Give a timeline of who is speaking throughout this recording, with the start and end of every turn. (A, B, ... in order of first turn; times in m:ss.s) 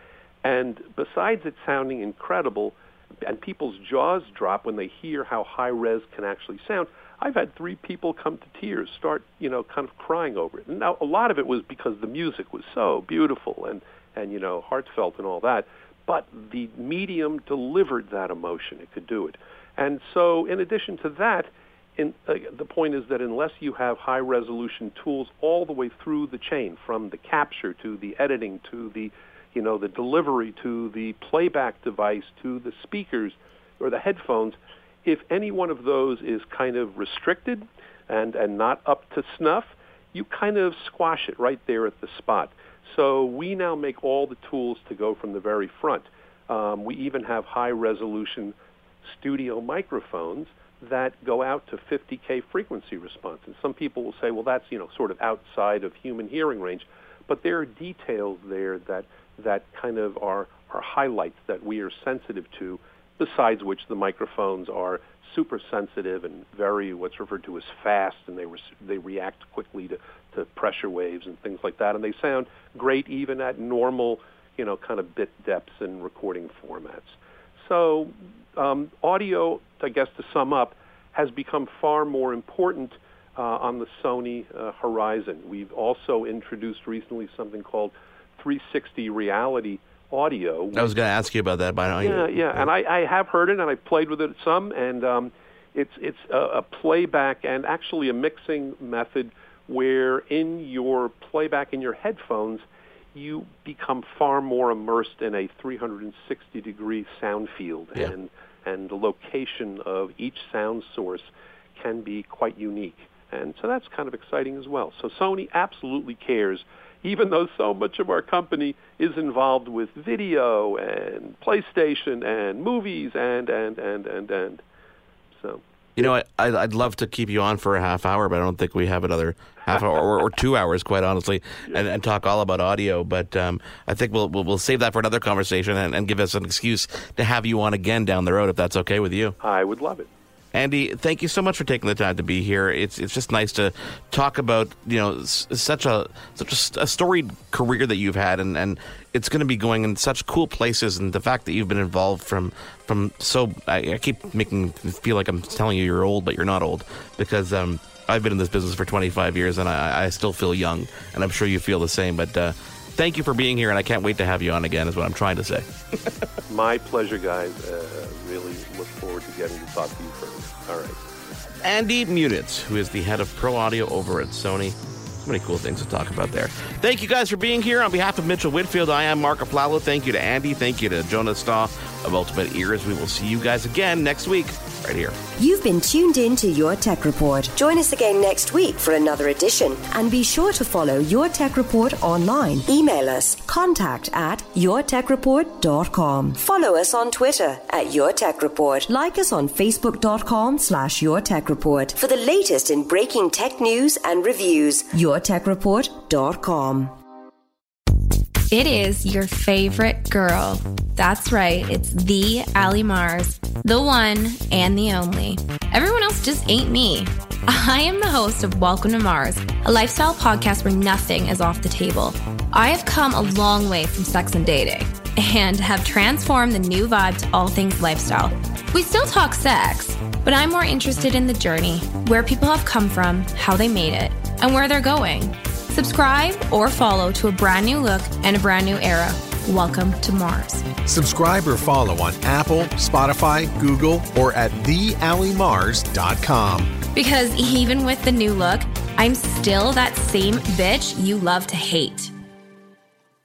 0:00.4-1:30.9 A
1:30.8-1:32.7 B
1:32.0-2:04.6 A
2:06.0-2:19.4 B
2:19.4-2:20.1 A
2:20.5-2:45.7 B
2:46.5-2:51.0 A
2:51.6-3:05.2 B
3:05.4-3:27.0 C
3:28.5-4:00.7 D
4:00.9-4:06.8 E
4:06.9-4:12.1 D